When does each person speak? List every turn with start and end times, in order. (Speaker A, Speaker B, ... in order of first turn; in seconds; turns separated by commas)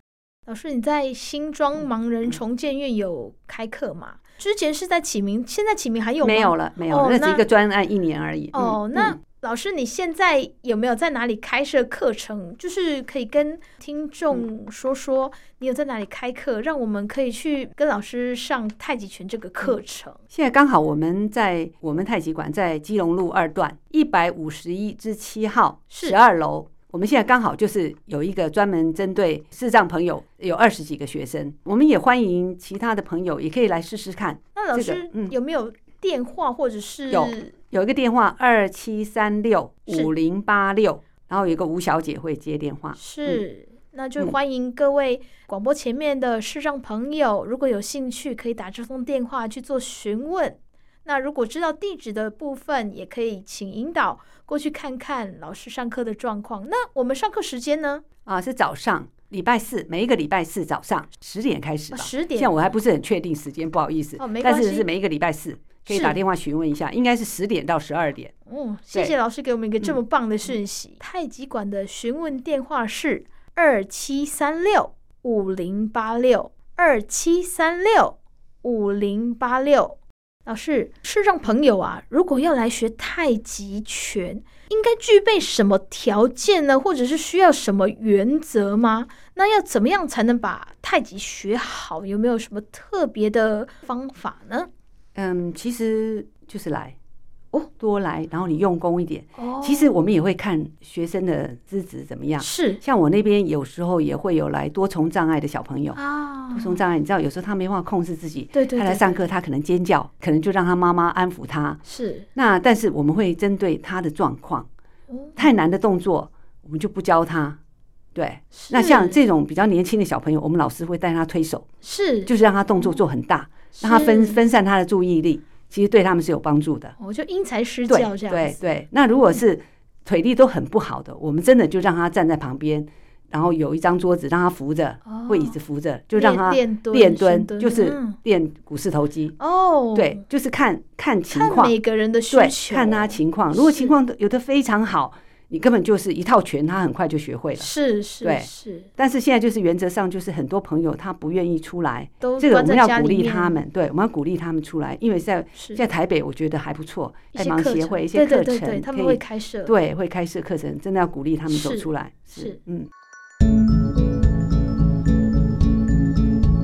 Speaker A: 0.5-7.4, Speaker B: 6.2-9.2, Speaker A: 8.5-20.2, Speaker B: 20.3-35.3, Speaker A: 25.9-26.1, Speaker A: 34.5-37.5, Speaker B: 37.1-43.4, Speaker A: 43.0-58.0, Speaker B: 58.2-68.3, Speaker A: 61.9-62.5, Speaker A: 64.2-64.9, Speaker A: 65.9-66.2, Speaker A: 68.5-94.7, Speaker B: 95.1-97.0, Speaker B: 97.8-106.0, Speaker A: 99.4-100.0, Speaker A: 102.4-102.8, Speaker A: 106.0-106.8, Speaker B: 106.5-111.8, Speaker A: 108.5-109.2, Speaker A: 111.8-112.3, Speaker B: 112.3-114.7, Speaker A: 115.1-115.4, Speaker B: 115.4-117.6, Speaker B: 118.1-121.7, Speaker A: 118.5-119.2, Speaker A: 121.8-122.3, Speaker B: 122.2-126.9, Speaker A: 123.7-124.4, Speaker A: 127.0-128.6, Speaker B: 127.9-139.3, Speaker A: 135.1-135.5, Speaker A: 136.1-138.2, Speaker A: 139.4-140.2, Speaker B: 139.9-141.7, Speaker A: 141.3-143.9, Speaker B: 142.3-147.7, Speaker A: 147.6-148.9, Speaker B: 148.2-162.9, Speaker A: 152.2-153.6, Speaker A: 155.5-155.8, Speaker A: 157.3-159.7, Speaker A: 161.5-162.6